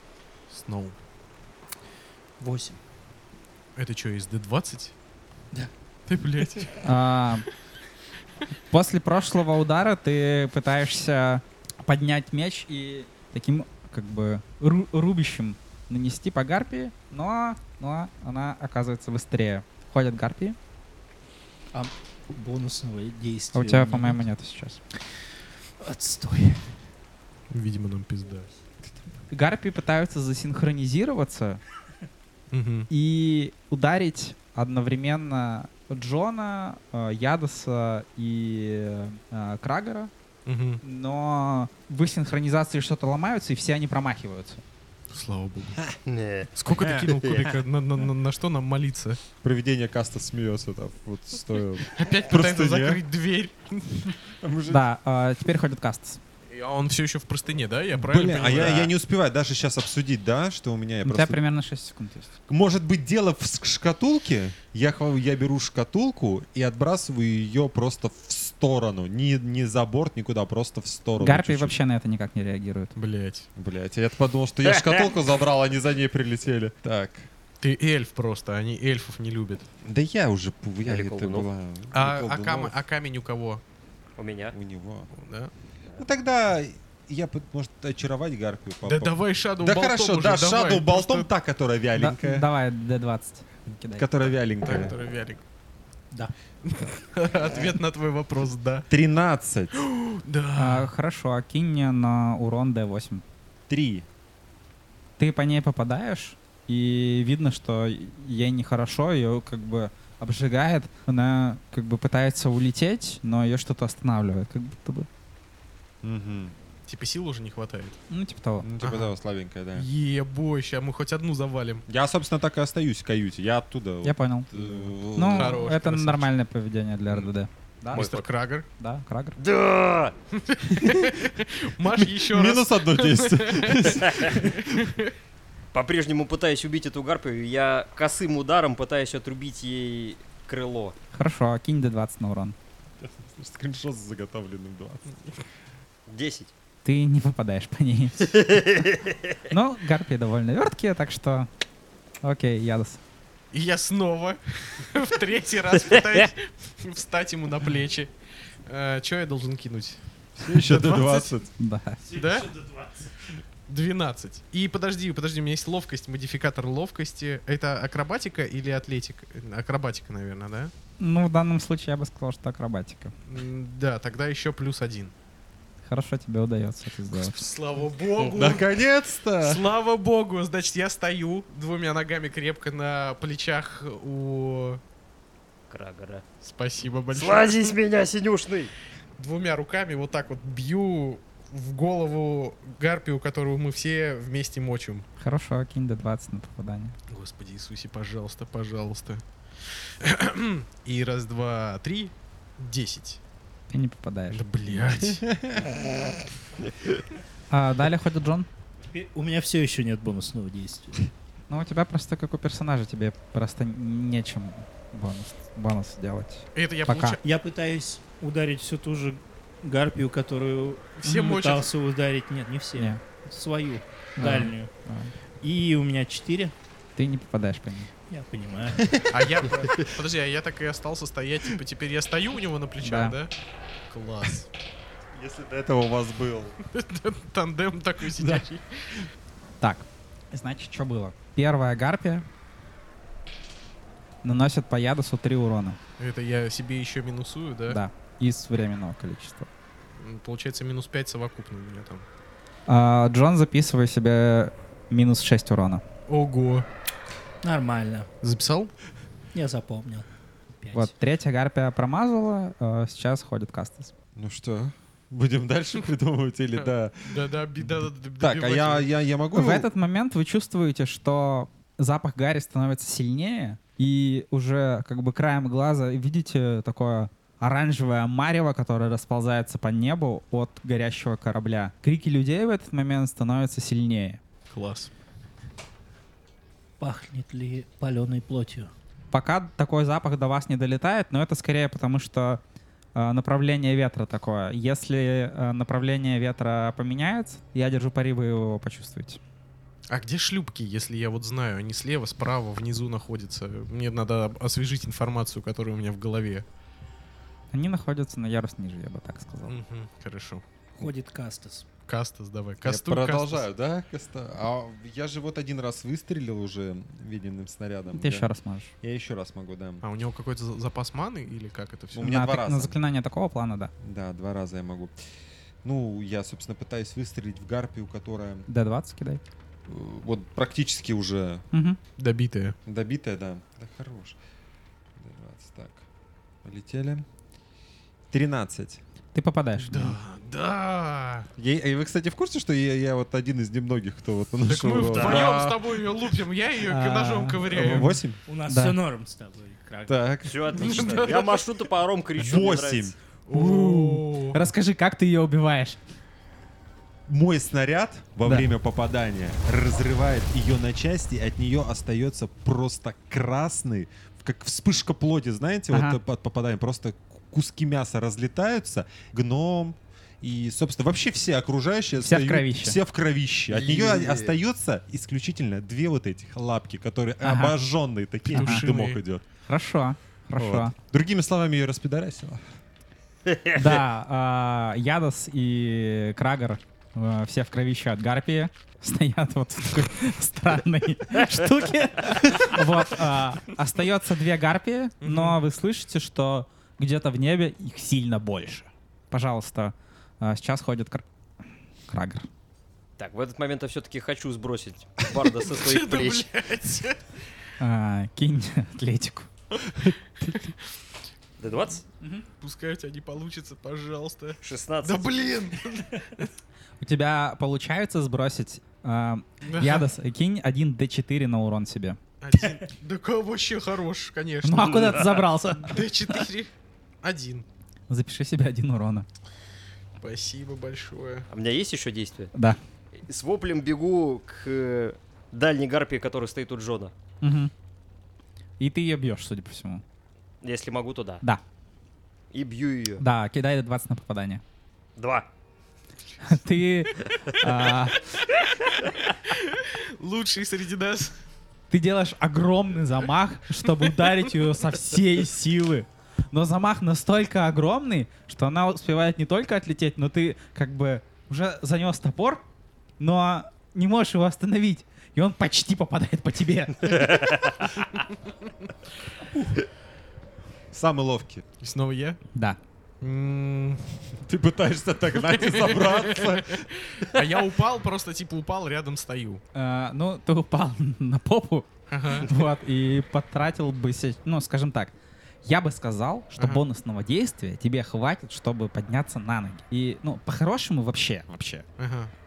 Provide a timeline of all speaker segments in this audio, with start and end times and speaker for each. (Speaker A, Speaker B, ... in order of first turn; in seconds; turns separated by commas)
Speaker A: 0.5-1.0, Speaker B: 2.4-2.8, Speaker A: 3.8-4.9, Speaker A: 6.1-6.8, Speaker C: 6.8-7.5, Speaker C: 8.7-20.6, Speaker B: 21.7-24.2, Speaker C: 23.5-24.8, Speaker B: 25.8-26.8, Speaker A: 27.5-28.5, Speaker C: 29.3-31.6, Speaker A: 32.5-32.9, Speaker C: 32.9-40.1, Speaker A: 40.5-40.8, Speaker C: 40.8-44.6, Speaker A: 45.1-45.8, Speaker D: 45.9-47.5, Speaker A: 46.6-49.2, Speaker E: 49.4-53.0, Speaker A: 51.9-54.1, Speaker E: 54.4-54.9, Speaker C: 54.7-56.2, Speaker A: 56.5-58.9, Speaker E: 58.0-61.4, Speaker C: 61.0-62.3, Speaker E: 62.5-71.8, Speaker C: 71.2-72.9, Speaker A: 73.0-73.5, Speaker E: 73.6-77.3, Speaker D: 74.7-75.1, Speaker A: 77.6-79.7, Speaker E: 79.8-82.8, Speaker D: 80.8-81.5, Speaker A: 81.9-83.6, Speaker D: 84.2-84.5, Speaker E: 84.5-85.1, Speaker A: 85.1-85.5, Speaker E: 86.0-92.5, Speaker A: 88.8-91.3, Speaker C: 92.0-94.1, Speaker E: 93.8-95.0, Speaker A: 94.6-95.4, Speaker A: 96.6-98.9, Speaker E: 98.9-99.7, Speaker A: 99.7-100.9, Speaker C: 100.6-103.2, Speaker E: 103.7-104.1, Speaker C: 105.2-115.1, Speaker E: 116.0-116.5, Speaker A: 116.9-118.0, Speaker C: 118.1-118.7, Speaker E: 118.6-119.9, Speaker A: 118.8-119.1, Speaker A: 119.7-121.9, Speaker E: 121.9-125.6, Speaker C: 124.0-124.5, Speaker C: 125.1-128.2, Speaker A: 125.3-126.3, Speaker A: 127.9-128.7, Speaker D: 127.9-128.2, Speaker C: 128.8-129.4, Speaker D: 129.4-130.1, Speaker A: 130.3-135.1, Speaker E: 130.7-131.2, Speaker E: 132.0-134.9, Speaker D: 134.1-134.3, Speaker D: 135.7-140.9, Speaker C: 141.1-142.6, Speaker E: 143.0-145.2, Speaker D: 146.1-146.5, Speaker C: 146.8-148.6, Speaker D: 148.3-149.4, Speaker C: 149.5-151.5, Speaker C: 152.2-153.0, Speaker A: 153.5-158.1, Speaker D: 156.0-156.3, Speaker A: 158.7-161.3, Speaker E: 160.4-161.5, Speaker C: 161.6-162.0, Speaker A: 162.1-162.5, Speaker B: 162.1-163.1, Speaker A: 163.7-170.7, Speaker C: 171.0-173.1, Speaker A: 173.3-175.1, Speaker C: 175.8-177.4, Speaker A: 177.1-178.7, Speaker E: 178.3-179.6, Speaker A: 179.4-184.8, Speaker D: 185.7-186.2, Speaker A: 186.4-187.8, Speaker D: 187.1-188.7, Speaker A: 189.2-195.1, Speaker C: 195.2-196.9, Speaker A: 197.1-203.2, Speaker C: 203.7-204.4, Speaker A: 204.3-205.2, Speaker E: 204.8-205.7, Speaker C: 207.5-208.5, Speaker B: 208.9-211.1, Speaker C: 211.5-217.2, Speaker A: 216.6-217.2, Speaker B: 217.2-224.7, Speaker A: 221.0-221.7, Speaker C: 224.2-225.1, Speaker B: 225.4-226.5, Speaker C: 227.0-227.9, Speaker B: 228.1-229.0, Speaker E: 228.8-229.9, Speaker A: 229.1-233.3, Speaker C: 232.8-233.2, Speaker A: 233.9-234.5, Speaker E: 235.1-236.6, Speaker A: 236.7-239.1, Speaker C: 239.6-242.3, Speaker C: 244.2-245.8, Speaker A: 246.0-247.8, Speaker C: 247.7-249.5, Speaker A: 250.0-252.1, Speaker C: 252.7-255.8, Speaker A: 256.1-256.7, Speaker B: 257.4-258.1, Speaker A: 258.2-258.7, Speaker B: 259.3-260.1, Speaker B: 260.6-260.9, Speaker C: 260.7-263.9, Speaker E: 264.2-267.3, Speaker A: 266.6-268.9, Speaker E: 268.2-269.7, Speaker C: 269.3-284.2, Speaker A: 284.5-284.9, Speaker B: 286.8-288.7, Speaker C: 289.1-292.4, Speaker C: 292.9-299.2, Speaker A: 299.9-306.4, Speaker C: 307.5-309.6, Speaker A: 309.5-310.4, Speaker B: 310.8-311.7, Speaker A: 311.9-313.5, Speaker E: 312.6-319.8, Speaker C: 317.9-318.7, Speaker A: 319.8-322.1, Speaker E: 321.9-322.8, Speaker C: 322.0-323.7, Speaker E: 323.8-324.9, Speaker E: 325.6-328.5, Speaker C: 328.5-329.2, Speaker E: 329.7-331.5, Speaker C: 331.5-331.8, Speaker A: 332.0-332.6, Speaker E: 332.7-334.2, Speaker E: 335.0-335.9, Speaker E: 336.4-337.1, Speaker E: 338.1-338.8, Speaker C: 339.1-340.0, Speaker A: 339.6-341.3, Speaker E: 341.4-346.0, Speaker A: 344.4-347.9, Speaker D: 344.8-345.3, Speaker C: 346.7-347.9, Speaker E: 347.5-348.2, Speaker B: 348.3-350.1, Speaker C: 348.5-348.8, Speaker E: 349.9-351.0, Speaker D: 350.2-352.9, Speaker A: 350.5-351.5, Speaker E: 352.2-353.0, Speaker A: 353.3-354.4, Speaker C: 353.3-355.8, Speaker E: 357.1-379.2, Speaker C: 365.7-366.0, Speaker C: 372.0-372.8, Speaker D: 373.5-374.4, Speaker C: 377.2-377.6, Speaker C: 378.3-378.7, Speaker A: 378.3-379.0, Speaker C: 379.5-380.8, Speaker E: 380.4-382.4, Speaker D: 383.3-383.6, Speaker C: 383.6-401.1, Speaker A: 395.0-395.4, Speaker C: 401.9-402.3, Speaker D: 403.0-406.3, Speaker A: 405.4-407.1, Speaker C: 407.6-409.3, Speaker A: 409.5-410.6, Speaker D: 411.4-411.8, Speaker C: 412.0-412.3, Speaker A: 412.4-416.3, Speaker D: 414.4-415.1, Speaker C: 416.8-422.0, Speaker A: 419.5-419.9, Speaker A: 422.2-425.0, Speaker C: 424.4-426.2, Speaker D: 424.6-425.2, Speaker A: 425.6-426.5, Speaker A: 427.0-427.5, Speaker C: 427.9-429.1, Speaker A: 430.0-431.3, Speaker D: 431.3-432.3, Speaker C: 432.3-432.6, Speaker D: 433.1-436.9, Speaker C: 437.2-437.5, Speaker C: 438.6-439.8, Speaker D: 440.4-441.2, Speaker D: 442.3-443.0, Speaker C: 443.0-444.4, Speaker D: 445.0-445.3, Speaker C: 446.2-448.0, Speaker A: 448.6-451.2, Speaker C: 451.7-462.4, Speaker C: 463.0-467.3, Speaker E: 470.7-471.4, Speaker A: 471.6-472.2, Speaker A: 473.0-474.1, Speaker E: 474.3-476.7, Speaker A: 475.2-479.4, Speaker C: 479.6-484.9, Speaker A: 481.9-482.3, Speaker C: 485.4-491.7, Speaker A: 486.4-486.6, Speaker A: 491.8-492.1